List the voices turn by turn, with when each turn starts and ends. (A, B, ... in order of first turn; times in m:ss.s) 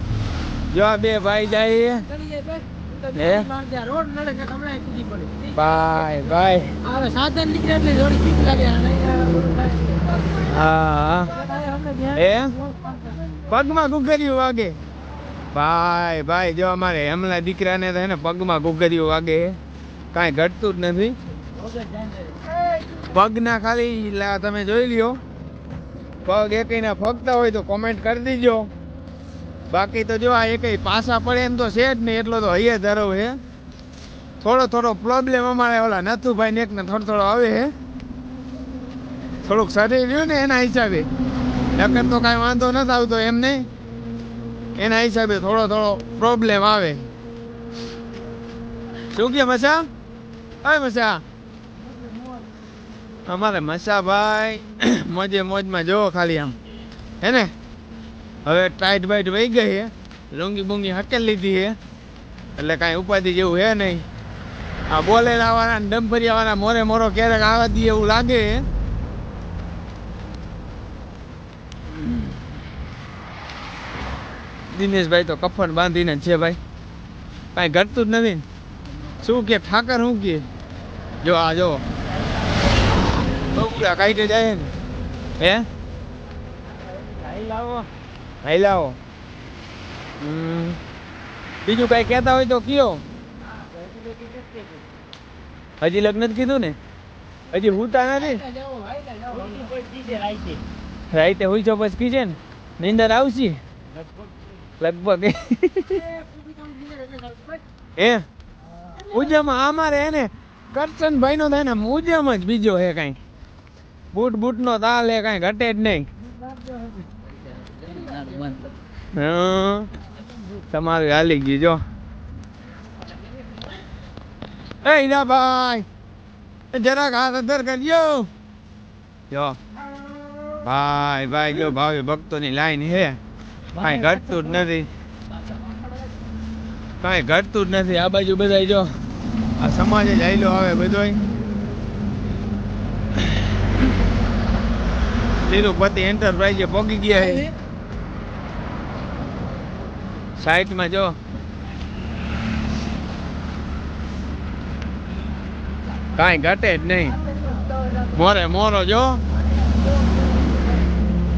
0:00.7-0:02.1 A
0:02.1-0:05.5 B
0:03.1-0:03.5 A
0:05.5-0:06.8 A
0:06.8-0:09.9 B
0:10.3-0:11.4 A
0:11.4-0:12.2 B
0:12.1-0:12.5 A
0:13.5-0:14.8 A
0:15.5-0:19.6 A
0:20.1-0:21.1 A
0:23.0-0:25.2 A
0:26.2-0:28.7 A
0:29.7-0:33.4 A
0:34.4-0:37.7 A
0:39.4-0:41.1 A
0:41.7-0:43.7 A
0:44.8-0:47.1 A
0:49.1-0:49.9 A
0:50.6-0:51.2 A
0:53.3-0:56.5 A
0:57.2-0:57.5 A
0:58.4-1:01.8 A
1:02.6-1:04.0 A
1:04.9-1:08.6 A
1:14.7-1:16.6 A
1:17.5-1:18.4 A
1:19.2-1:20.4 A
1:21.2-1:21.8 A
1:23.5-1:24.7 A
1:25.4-1:25.6 A
1:27.2-1:27.8 B
1:28.4-1:29.0 A
1:30.2-1:30.8 A
1:31.6-1:33.0 A
1:35.8-1:36.8 A
1:37.5-1:38.5 A
1:39.0-1:40.6 B
1:41.1-1:43.6 A
1:44.8-1:46.1 A
1:46.4-1:47.6 B
1:48.0-1:48.2 A
1:49.0-1:53.2 A
1:54.1-1:56.0 A
1:57.8-1:58.7 B
1:59.1-1:59.9 A
2:00.7-2:01.8 A
2:04.8-2:05.8 A
2:06.7-2:08.3 A
2:09.3-2:09.6 A
2:10.6-2:13.2 A
2:13.8-2:14.9 A
2:17.0-2:18.9 A
2:19.6-2:21.2 A
2:25.4-2:27.5 A
2:30.4-2:31.1 A
2:36.1-2:37.2 A
2:38.1-2:39.2 A